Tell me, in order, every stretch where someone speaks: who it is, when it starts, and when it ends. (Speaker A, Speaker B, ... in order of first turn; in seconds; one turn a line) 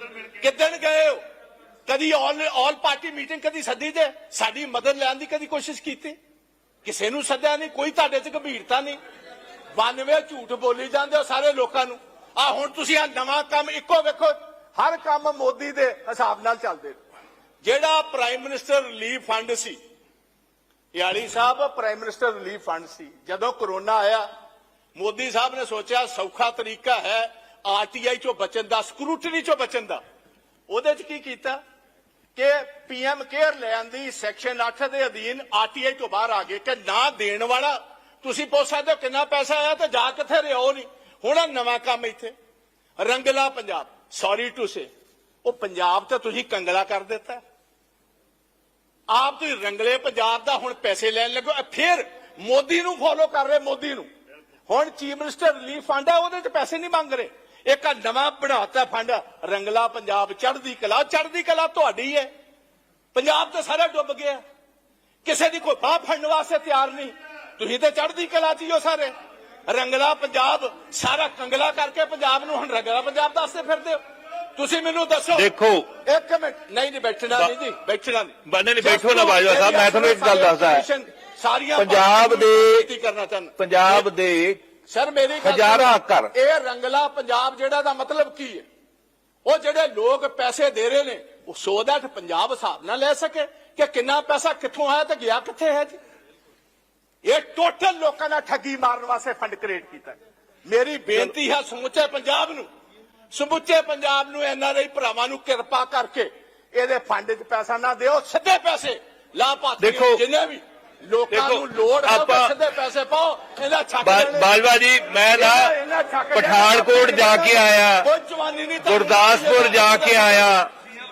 Speaker A: 0.4-1.2
Speaker A: 1.9-6.2
Speaker A: 6.8-9.0
Speaker A: 9.8-17.0
Speaker A: 17.6-19.8
Speaker A: 20.9-24.3
Speaker A: 24.9-30.0
Speaker A: 30.7-31.6
Speaker A: 32.4-42.3
Speaker A: 43.0-44.9
Speaker A: 45.4-47.4
Speaker A: 49.1-54.1
Speaker A: 54.7-62.3
Speaker A: 63.1-64.4
Speaker A: 65.2-69.1
Speaker A: 69.7-74.0
Speaker A: 74.6-75.5
Speaker B: 75.3-75.9
Speaker A: 76.0-84.1
Speaker B: 78.5-80.9
Speaker B: 81.8-82.9
Speaker B: 83.6-84.6
Speaker A: 84.9-88.7
Speaker B: 85.4-86.3
Speaker A: 89.5-96.0
Speaker A: 97.2-102.7
Speaker A: 103.3-114.6
Speaker B: 109.8-110.2
Speaker B: 111.3-112.5
Speaker B: 114.0-115.7
Speaker A: 115.3-120.5
Speaker B: 116.3-118.1
Speaker B: 118.8-120.7